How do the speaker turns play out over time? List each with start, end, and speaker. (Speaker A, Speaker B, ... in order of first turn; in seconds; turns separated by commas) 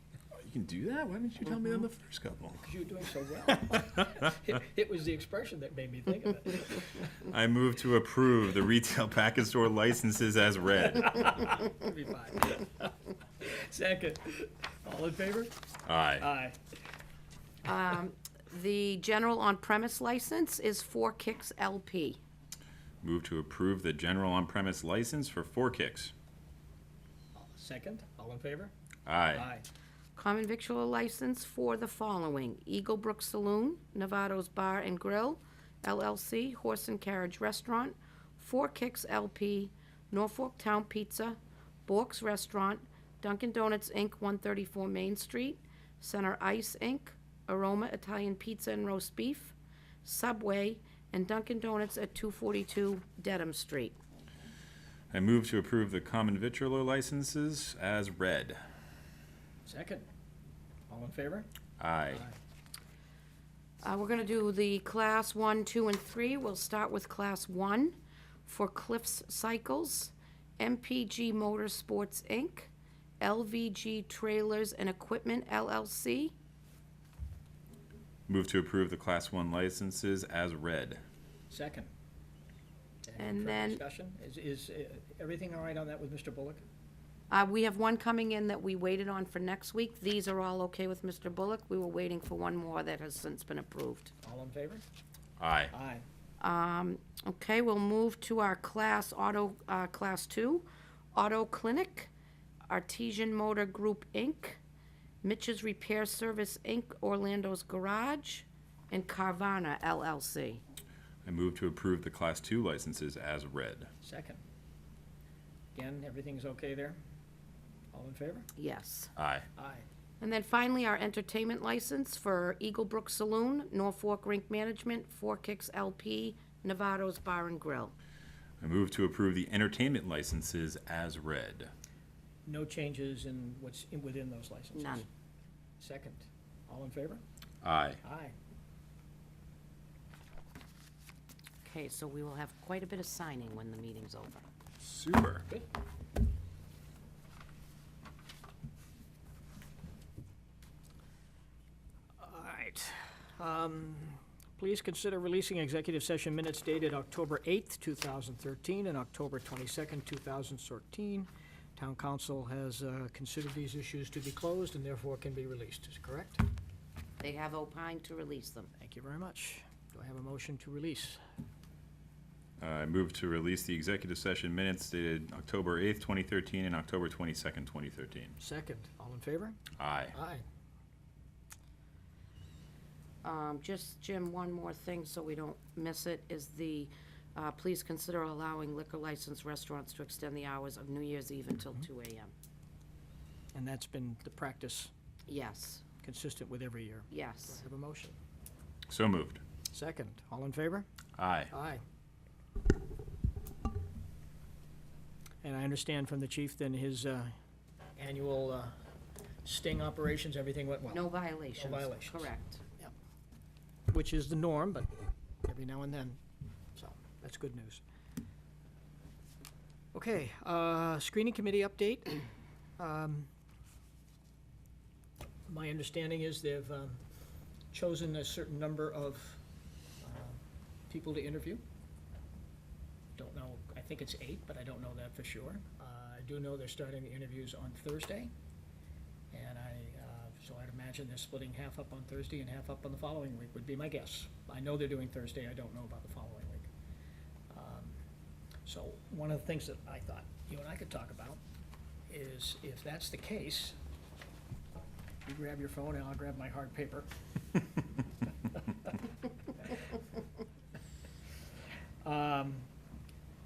Speaker A: 0.4-2.6, Speaker B: 2.6-7.1, Speaker A: 7.2-11.2, Speaker B: 11.1-15.5, Speaker A: 15.8-16.2, Speaker B: 16.2-16.6, Speaker C: 17.6-22.2, Speaker A: 23.0-26.1, Speaker B: 27.3-28.7, Speaker A: 29.1-29.5, Speaker B: 29.3-29.6, Speaker C: 30.1-54.0, Speaker A: 55.1-58.6, Speaker B: 59.6-60.1, Speaker B: 60.9-61.5, Speaker A: 61.8-62.2, Speaker B: 62.1-62.4, Speaker C: 63.8-76.3, Speaker A: 78.3-81.0, Speaker B: 81.5-81.9, Speaker B: 83.0-86.6, Speaker C: 83.2-83.8, Speaker C: 87.3-94.1, Speaker B: 94.2-94.8, Speaker A: 95.4-95.7, Speaker B: 95.7-96.0, Speaker C: 96.4-102.1, Speaker C: 102.7-104.6, Speaker C: 105.2-110.6, Speaker A: 111.2-113.9, Speaker B: 114.0-114.4, Speaker B: 115.7-117.0, Speaker B: 117.9-118.5, Speaker C: 118.6-119.1, Speaker A: 119.2-119.5, Speaker B: 119.6-119.8, Speaker C: 120.2-127.9, Speaker A: 128.6-131.7, Speaker B: 132.4-135.1, Speaker C: 134.7-135.1, Speaker B: 135.8-137.2, Speaker A: 137.6-138.0, Speaker B: 138.0-138.3, Speaker C: 141.6-144.4, Speaker A: 144.8-145.4, Speaker B: 152.2-166.4, Speaker C: 167.2-168.7, Speaker B: 168.8-171.2, Speaker A: 172.6-178.3, Speaker B: 178.4-179.6, Speaker A: 179.8-180.1, Speaker B: 180.1-180.4, Speaker C: 183.2-192.3, Speaker B: 193.5-194.9, Speaker C: 195.3-195.8, Speaker B: 196.0-198.2, Speaker C: 197.1-197.6, Speaker A: 198.9-199.4, Speaker B: 199.7-200.8, Speaker A: 201.2-201.5, Speaker B: 201.5-201.8, Speaker B: 205.4-207.3, Speaker B: 208.0-208.7, Speaker B: 209.4-212.9, Speaker C: 210.9-212.6, Speaker B: 213.9-214.9, Speaker B: 215.4-216.2, Speaker B: 216.7-217.8, Speaker B: 219.9-222.2, Speaker B: 222.8-223.3, Speaker B: 225.5-227.0, Speaker B: 227.7-229.4, Speaker B: 230.0-231.6, Speaker B: 233.2-238.3, Speaker B: 239.3-246.7, Speaker B: 247.5-248.0, Speaker B: 248.6-251.4, Speaker B: 252.1-253.7, Speaker B: 255.2-257.1, Speaker B: 262.0-262.7